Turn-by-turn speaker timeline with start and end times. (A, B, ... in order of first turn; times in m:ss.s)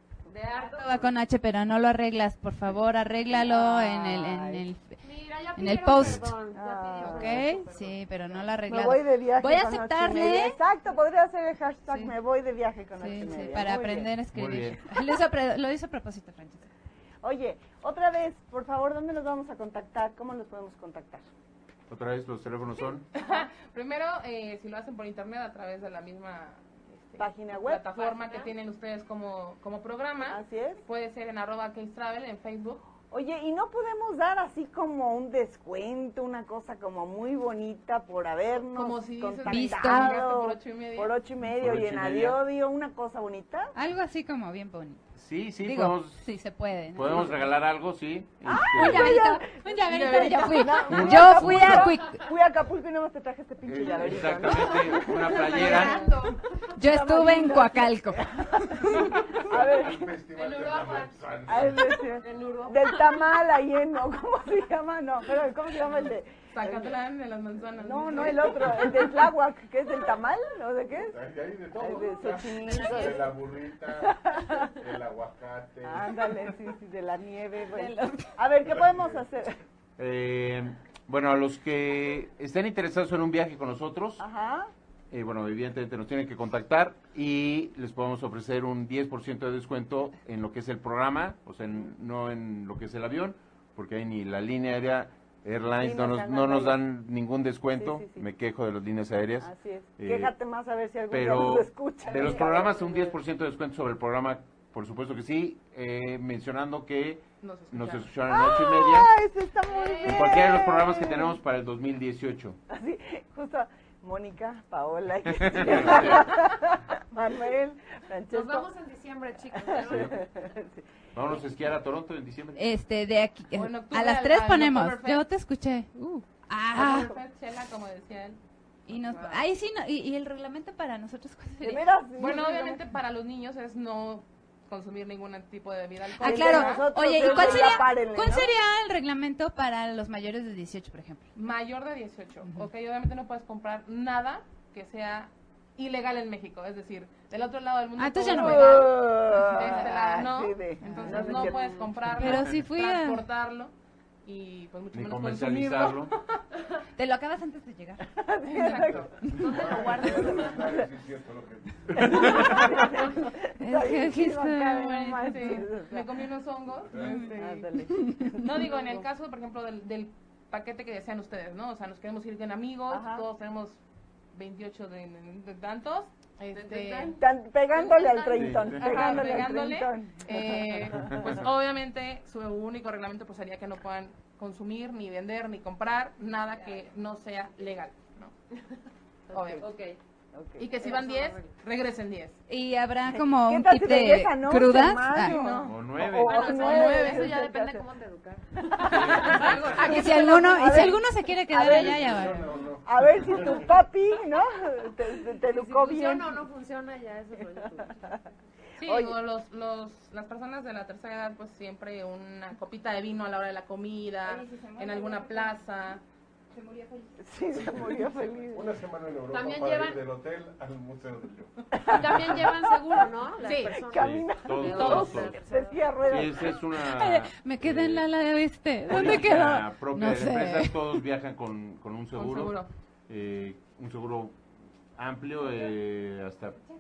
0:00.3-0:01.1 A
0:00.6-0:05.0 B
0:03.3-0:04.6 C
0:05.0-0:08.6 A
0:05.5-0:06.3 B
0:06.5-0:07.4 C
0:07.0-0:10.6 B
0:08.7-0:14.1 C
0:13.0-0:16.7 B
0:14.3-0:14.8 D
0:17.2-0:21.3 C
0:21.9-0:23.1 D
0:23.1-0:32.8 E
0:27.2-0:27.8 C
0:27.9-0:28.6 A
0:30.3-0:30.8 C
0:33.1-0:43.7 C
0:38.7-0:41.2 E
0:39.5-0:40.2 B
0:41.4-0:42.4 D
0:43.8-0:45.0 B
0:45.2-0:46.2 D
0:45.6-0:47.4 B
0:47.0-0:49.2 D
0:48.5-0:55.9 C
0:48.7-0:52.2 B
0:49.9-0:50.9 E
0:50.8-0:51.9 D
0:53.7-0:56.1 D
0:54.5-0:56.7 A
0:55.6-0:56.0 B
0:56.8-0:58.9 B
0:56.8-1:00.1 C
0:59.4-1:02.0 F
1:00.3-1:01.3 A
1:01.5-1:07.0 C
1:02.2-1:03.2 A
1:06.5-1:08.9 E
1:07.8-1:11.2 C
1:11.1-1:16.4 F
1:11.8-1:13.3 C
1:14.0-1:14.7 C
1:15.8-1:19.6 C
1:17.7-1:18.4 B
1:18.8-1:19.2 F
1:20.0-1:24.2 D
1:24.2-1:24.7 C
1:25.1-1:40.3 D
1:35.8-1:36.8 C
1:37.8-1:38.2 C
1:39.4-1:43.2 C
1:41.1-1:49.1 D
1:47.4-1:48.1 E
1:48.3-1:51.4 C
1:49.7-1:50.4 A
1:50.0-1:52.6 D
1:52.7-1:58.7 C
1:55.4-1:56.1 D
1:58.3-2:00.5 A
1:59.6-2:01.4 C
1:59.8-2:00.1 D
2:01.2-2:02.6 D
2:02.6-2:07.2 B
2:03.5-2:05.3 E
2:06.7-2:08.4 E
2:08.9-2:11.9 B
2:11.6-2:12.9 C
2:12.2-2:17.8 E
2:16.2-2:21.3 B
2:16.2-2:18.5 C
2:21.4-2:33.7 E
2:28.0-2:28.9 B
2:28.3-2:31.7 C
2:30.8-2:31.5 B
2:31.3-2:32.0 A
2:32.1-2:33.2 B
2:34.2-2:36.4 E
2:34.9-2:36.1 D
2:37.0-2:38.1 B
2:38.1-2:39.3 C
2:38.4-2:39.3 E
2:38.8-2:43.0 F
2:39.3-2:40.8 A
2:40.3-2:40.9 C
2:42.0-2:46.1 C
2:43.6-2:45.3 B
2:44.8-2:47.7 E
2:46.8-2:47.3 F
2:46.9-2:48.5 B
2:47.3-2:48.9 C
2:48.4-2:53.8 E
2:52.9-2:53.2 C
2:54.3-2:57.2 E
2:56.5-2:57.2 A
2:57.2-3:01.2 C
2:57.7-2:59.4 A
2:58.4-2:58.9 D
2:58.4-3:08.3 E
3:01.0-3:01.4 D
3:09.3-3:10.0 A
3:09.3-3:09.7 E
3:10.3-3:10.7 C
3:10.6-3:12.4 E
3:10.7-3:11.6 A
3:12.5-3:15.4 B
3:13.1-3:17.8 C
3:15.2-3:15.8 E
3:15.6-3:16.5 D
3:16.2-3:20.4 A
3:16.4-3:17.4 E
3:18.7-3:26.4 C
3:19.0-3:19.6 D
3:19.1-3:20.1 E
3:19.8-3:22.5 B
3:21.5-3:23.7 F
3:25.5-3:28.3 A
3:28.8-3:36.0 E
3:28.8-3:29.2 C
3:34.2-3:35.6 B
3:36.5-3:37.2 B
3:37.2-3:38.7 C
3:37.5-3:41.7 F
3:39.3-3:40.0 A
3:41.8-3:42.4 C
3:41.8-3:46.3 A
3:43.4-3:43.8 E
3:43.8-3:46.5 C
3:43.9-3:45.4 D
3:44.8-3:45.3 E
3:46.1-3:48.1 D
3:46.8-3:51.0 B
3:48.9-3:54.4 D
3:52.1-3:52.7 E
3:55.0-3:56.6 D